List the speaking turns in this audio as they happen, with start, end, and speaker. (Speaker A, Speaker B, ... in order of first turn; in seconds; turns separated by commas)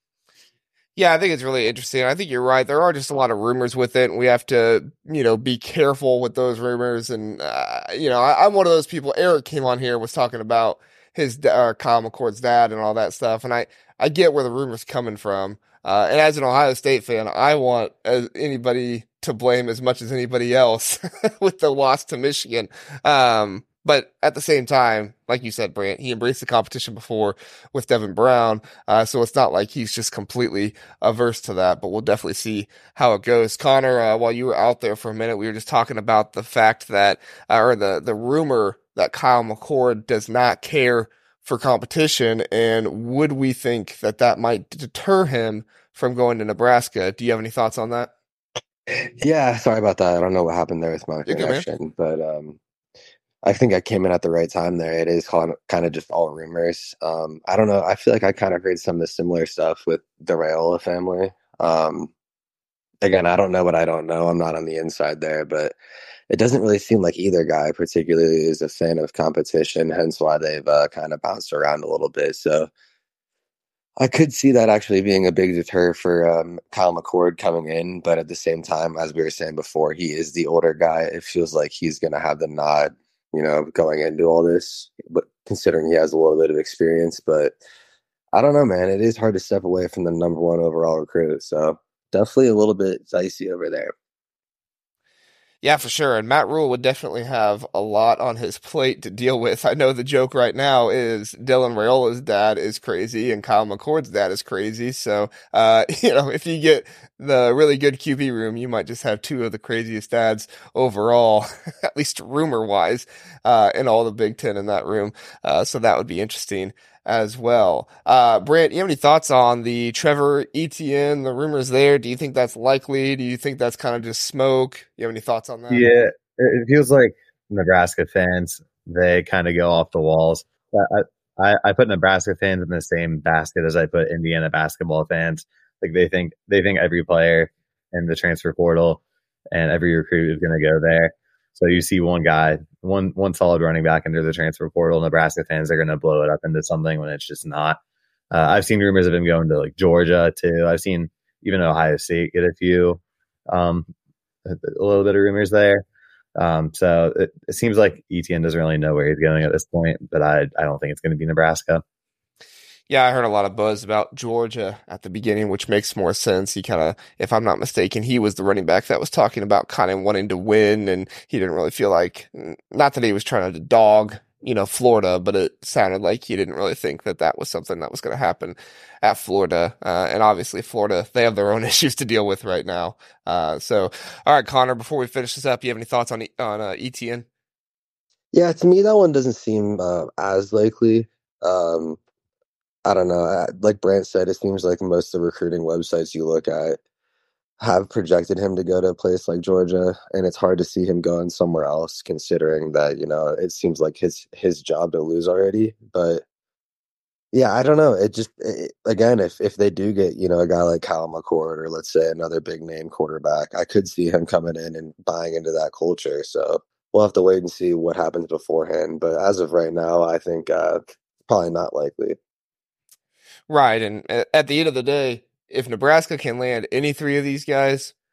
Speaker A: 1.0-48.1, Speaker B: 49.2-52.6, Speaker A: 51.3-51.7, Speaker B: 53.4-62.1, Speaker B: 63.0-65.8, Speaker B: 66.3-72.7, Speaker B: 74.0-87.6, Speaker B: 88.3-93.9, Speaker A: 95.6-125.9, Speaker C: 125.7-147.8, Speaker C: 148.3-153.9, Speaker C: 154.4-155.8, Speaker C: 156.4-161.8, Speaker A: 162.9-187.3, Speaker B: 188.3-192.0, Speaker B: 192.8-196.8, Speaker B: 197.6-206.2, Speaker B: 207.3-222.2, Speaker A: 223.5-227.9